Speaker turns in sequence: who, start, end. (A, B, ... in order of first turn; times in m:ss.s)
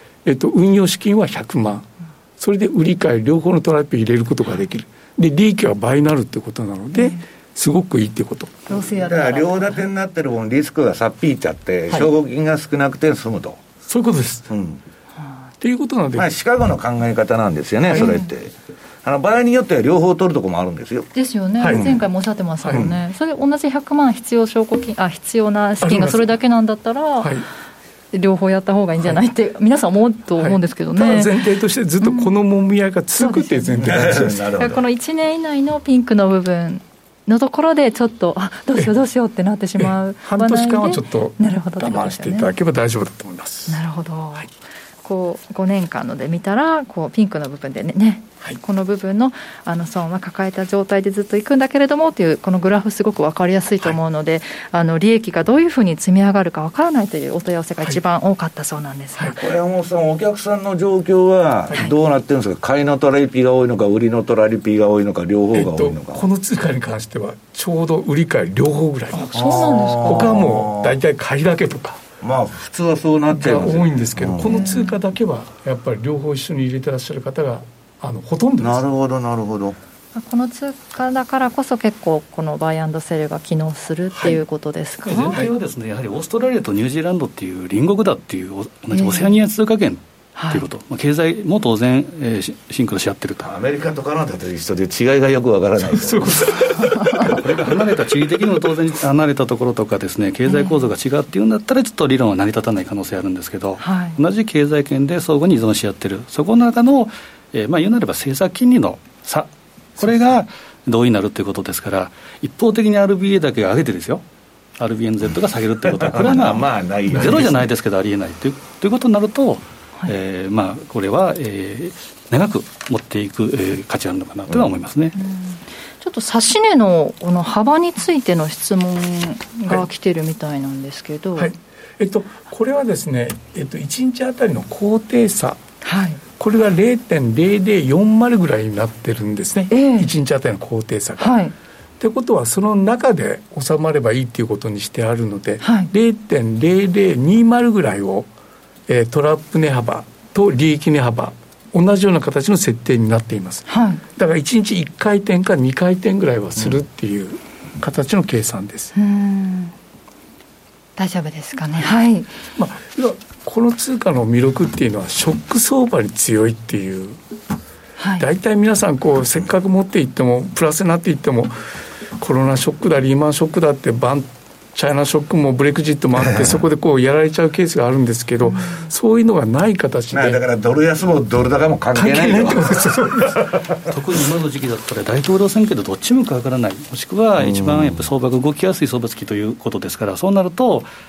0:00.2-0:08.8 A
0:08.7-0:09.8 B
0:08.9-0:13.6 C
0:13.9-0:14.5 A
0:14.5-0:14.8 C
0:15.6-0:16.3 A
0:16.1-0:21.1 C
0:17.9-0:18.2 A
0:18.0-0:18.2 B
0:21.1-0:27.4 B
0:21.6-0:22.0 A
0:22.6-0:22.9 A
0:22.7-0:23.0 C
0:25.8-0:26.3 A
0:27.2-0:27.4 A
0:28.1-0:31.4 B
0:30.4-0:34.5 A
0:32.0-0:32.3 B
0:33.2-0:33.8 B
0:33.8-0:34.8 C
0:34.6-0:42.5 B
0:39.8-0:43.8 A
0:43.7-0:44.5 B
0:45.0-0:59.4 B
0:59.3-1:06.2 C
1:05.5-1:12.0 A
1:09.1-1:10.3 B
1:09.3-1:11.0 C
1:12.2-1:14.6 C
1:13.3-1:18.8 A
1:14.4-1:14.9 B
1:18.6-1:19.8 C
1:20.1-1:25.4 B
1:25.0-1:33.5 D
1:28.9-1:29.3 B
1:30.4-1:30.7 B
1:33.4-1:36.6 C
1:35.8-1:37.4 A
1:37.3-1:54.2 D
1:40.5-1:40.8 B
1:43.8-1:44.2 B
1:54.8-2:05.1 D
1:55.9-1:57.6 C
2:05.1-2:11.5 B
2:11.4-2:15.6 A
2:15.8-2:16.2 B
2:16.4-2:21.4 A
2:19.7-2:20.1 B
2:21.2-2:21.5 B
2:22.0-2:28.3 A
2:25.6-2:25.9 B
2:28.9-2:38.9 A
2:33.7-2:34.0 B
2:39.0-2:39.7 B
2:41.0-2:42.3 B
2:42.6-2:47.2 A
2:48.0-2:48.3 B
2:48.2-2:51.5 A
2:52.2-3:00.4 A
2:56.2-2:56.6 C
2:58.5-2:58.8 B
3:00.1-3:03.7 C
3:01.9-3:03.5 A
3:03.9-3:10.9 D
3:07.4-3:08.0 C